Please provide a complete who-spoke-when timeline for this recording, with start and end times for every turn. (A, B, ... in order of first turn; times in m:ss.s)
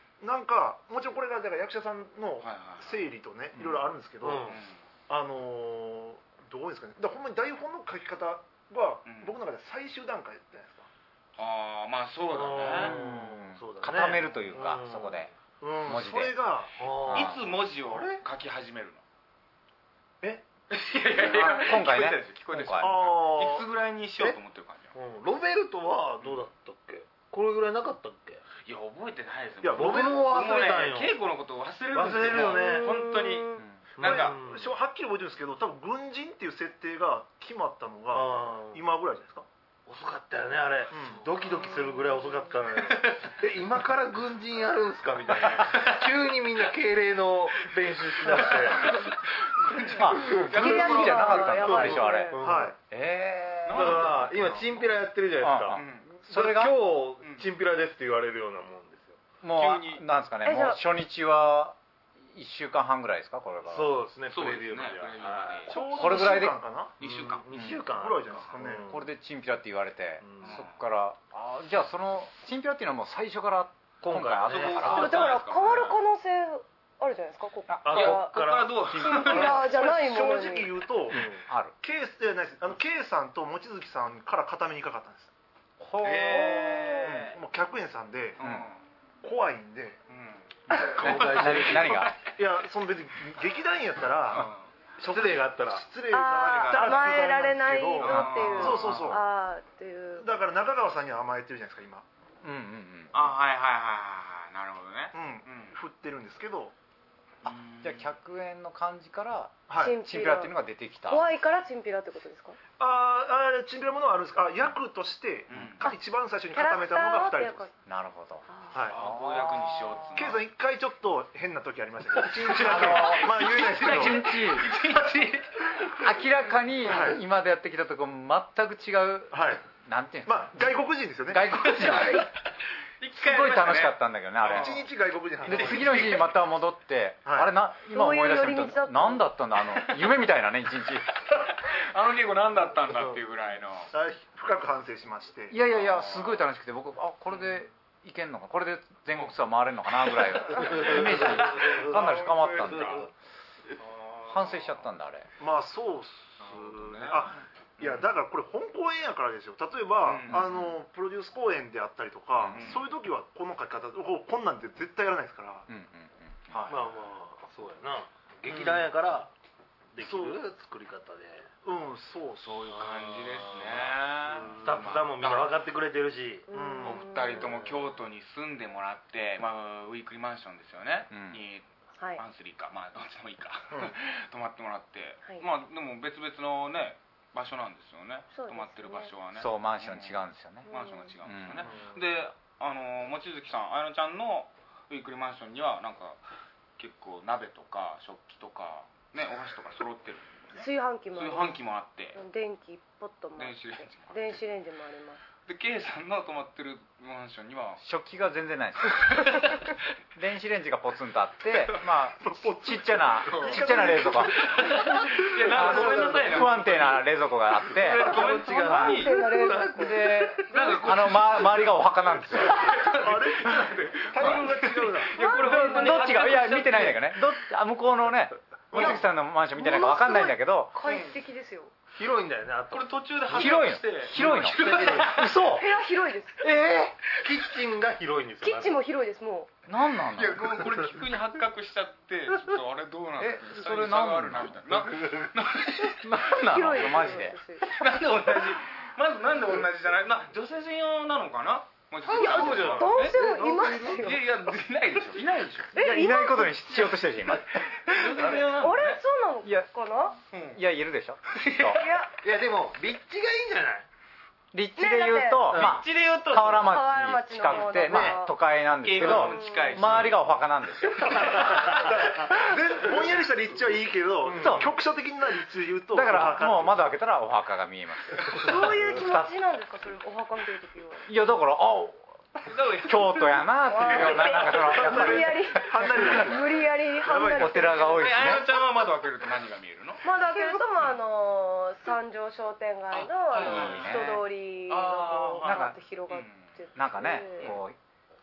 0:00.2-0:04.6 A
0:02.4-0:03.1 B
0:04.2-0:04.6 C
0:04.5-0:04.8 B
0:05.1-0:10.9 A
0:09.0-0:09.3 B
0:11.4-0:13.0 B
0:12.3-0:15.3 C
0:12.8-0:15.3 D
0:15.6-0:16.8 A
0:15.8-0:16.3 D
0:16.8-0:17.3 C
0:17.1-0:17.4 D
0:17.1-0:19.0 B
0:17.9-0:18.2 A
0:20.7-0:24.9 B
0:21.2-0:22.9 D
0:22.8-0:23.6 A
0:24.9-0:28.4 C
0:28.6-0:34.4 B
0:29.6-0:30.2 A
0:29.7-0:31.2 C
0:31.9-0:32.9 C
0:32.3-0:33.6 E
0:34.0-0:34.7 C
0:34.0-0:39.5 A
0:38.1-0:38.8 C
0:39.8-0:48.9 C
0:40.9-0:41.3 A
0:41.6-0:42.5 E
0:45.5-0:45.9 B
0:48.2-0:51.6 B
0:49.8-0:52.3 D
0:50.1-0:52.7 C
0:50.3-0:52.4 E
0:52.4-0:52.8 A
0:52.9-0:54.8 D
0:53.7-0:54.3 B
0:53.7-0:59.2 C
0:55.4-0:56.7 D
0:55.7-0:56.1 B
0:57.2-0:57.5 B
0:59.4-1:03.9 D
0:59.5-1:00.0 B
1:00.4-1:00.8 E
1:03.7-1:05.7 C
1:04.3-1:05.7 B
1:05.7-1:07.0 A
1:05.7-1:06.4 E
1:05.9-1:06.6 D
1:07.0-1:07.4 B
1:07.0-1:09.0 C
1:07.5-1:07.9 D
1:07.9-1:08.9 A
1:08.9-1:15.2 D
1:10.2-1:10.6 C
1:10.4-1:10.7 B
1:14.0-1:15.1 C
1:14.5-1:16.0 B
1:14.8-1:20.7 E
1:17.8-1:19.0 C
1:17.8-1:19.6 B
1:19.2-1:21.2 A
1:21.1-1:21.4 C
1:21.1-1:21.7 D
1:21.8-1:25.3 A
1:25.8-1:27.2 D
1:26.0-1:27.2 B
1:26.3-1:27.2 E
1:27.0-1:28.4 A
1:28.4-1:28.8 B
1:28.4-1:28.7 D
1:29.2-1:30.0 A
1:30.1-1:32.3 B
1:30.7-1:32.1 D
1:30.7-1:32.1 C
1:32.4-1:39.2 A
1:34.3-1:34.7 B
1:35.0-1:35.9 C
1:36.1-1:40.3 E
1:36.2-1:37.1 B
1:38.0-1:39.1 B
1:38.3-1:39.2 D
1:40.2-1:42.0 A
1:42.4-1:43.2 D
1:43.1-1:45.8 B
1:45.1-1:46.7 A
1:47.4-1:48.1 B
1:47.4-1:51.3 D
1:49.7-1:50.0 A
1:49.8-1:50.5 E
1:51.1-1:52.6 E
1:52.8-1:57.7 A
1:55.5-1:55.9 B
1:56.5-1:57.7 E
1:57.8-2:00.3 D
1:58.5-1:58.7 E
1:58.7-1:59.0 A
1:58.8-2:00.4 B
2:00.1-2:04.3 A
2:02.2-2:05.9 B
2:02.6-2:04.7 D
2:05.9-2:10.7 D
2:06.8-2:07.2 A
2:09.3-2:09.6 A
2:10.2-2:11.4 A
2:11.3-2:12.3 D
2:11.8-2:12.3 E
2:13.0-2:14.8 B
2:13.1-2:14.8 D
2:14.5-2:16.2 A
2:15.4-2:21.2 D
2:15.5-2:16.3 B
2:17.2-2:17.5 A
2:17.9-2:19.2 E
2:19.7-2:20.0 B
2:21.2-2:23.9 B
2:23.9-2:25.6 A
2:25.5-2:33.1 D
2:25.6-2:26.5 B
2:30.6-2:33.0 C
2:30.7-2:33.1 B
2:34.0-2:34.8 B
2:34.3-2:35.3 D
2:35.4-2:45.7 A
2:36.4-2:37.3 B
2:37.8-2:38.1 B
2:40.0-2:40.8 B
2:42.4-2:42.7 D
2:42.5-2:42.9 B
2:45.7-2:46.6 D
2:46.7-2:49.3 C
2:48.5-2:48.9 B
2:49.9-2:51.5 C
2:50.0-2:50.4 A
2:51.6-2:53.2 A
2:52.7-2:55.5 B
2:53.2-2:56.5 C
2:56.5-2:57.6 E
2:56.5-2:57.0 A
2:56.8-3:01.6 B
2:57.4-2:57.8 C
3:01.1-3:01.4 D
3:02.2-3:16.2 B
3:08.3-3:09.1 E
3:09.4-3:10.7 D
3:10.6-3:11.1 E
3:11.2-3:11.6 D
3:11.6-3:12.0 C
3:16.8-3:22.2 B
3:20.5-3:21.6 E
3:22.1-3:25.2 E
3:23.4-3:24.4 B
3:25.4-3:27.8 B
3:27.8-3:29.4 D
3:29.0-3:29.7 B
3:30.2-3:34.7 D
3:32.2-3:34.7 A
3:33.2-3:37.0 B
3:34.9-3:36.5 C
3:35.4-3:38.1 D
3:35.4-3:36.2 A
3:37.8-3:39.1 B
3:37.8-3:41.7 C
3:38.1-3:40.9 E
3:39.8-3:42.7 D
3:40.5-3:47.2 B
3:42.8-3:45.1 A
3:45.1-3:46.2 E
3:45.4-3:50.7 D
3:48.7-3:49.0 B
3:49.6-3:51.7 E
3:50.8-3:51.2 B
3:51.9-3:55.3 C
3:52.7-3:55.4 B
3:53.3-3:55.6 D
3:55.4-3:56.4 E
3:56.4-3:58.8 C
3:57.1-3:57.4 B
3:58.4-3:59.5 E
3:59.7-4:00.6 D
4:00.1-4:06.1 B
4:03.2-4:04.9 D
4:05.8-4:07.4 D
4:06.2-4:07.7 E
4:07.6-4:15.7 B
4:12.0-4:14.0 C
4:12.1-4:14.2 E
4:15.7-4:16.6 E
4:15.8-4:18.3 D
4:17.9-4:19.0 B
4:18.6-4:20.2 E
4:20.3-4:20.6 B
4:20.5-4:21.8 D
4:21.3-4:21.8 B
4:21.7-4:22.2 E
4:22.2-4:23.9 C
4:24.5-4:31.7 D
4:24.8-4:25.7 E
4:25.5-4:25.8 C
4:25.5-4:26.7 B
4:26.5-4:28.3 E
4:28.8-4:30.2 B
4:29.2-4:30.0 E
4:31.1-4:31.8 C
4:31.6-4:36.8 A
4:34.2-4:34.7 C
4:34.4-4:34.6 D
4:35.9-4:39.3 D
4:38.4-4:41.1 E
4:41.1-4:42.2 D
4:42.4-4:44.1 B
4:42.8-4:46.1 D
4:43.7-4:48.0 E
4:44.7-4:48.0 A
4:47.4-4:48.5 D
4:47.9-4:50.9 B
4:50.0-4:57.5 E
4:52.9-4:54.2 B
4:53.4-4:54.2 D
4:54.7-4:56.5 B
4:55.4-4:55.8 D
4:56.8-4:57.8 D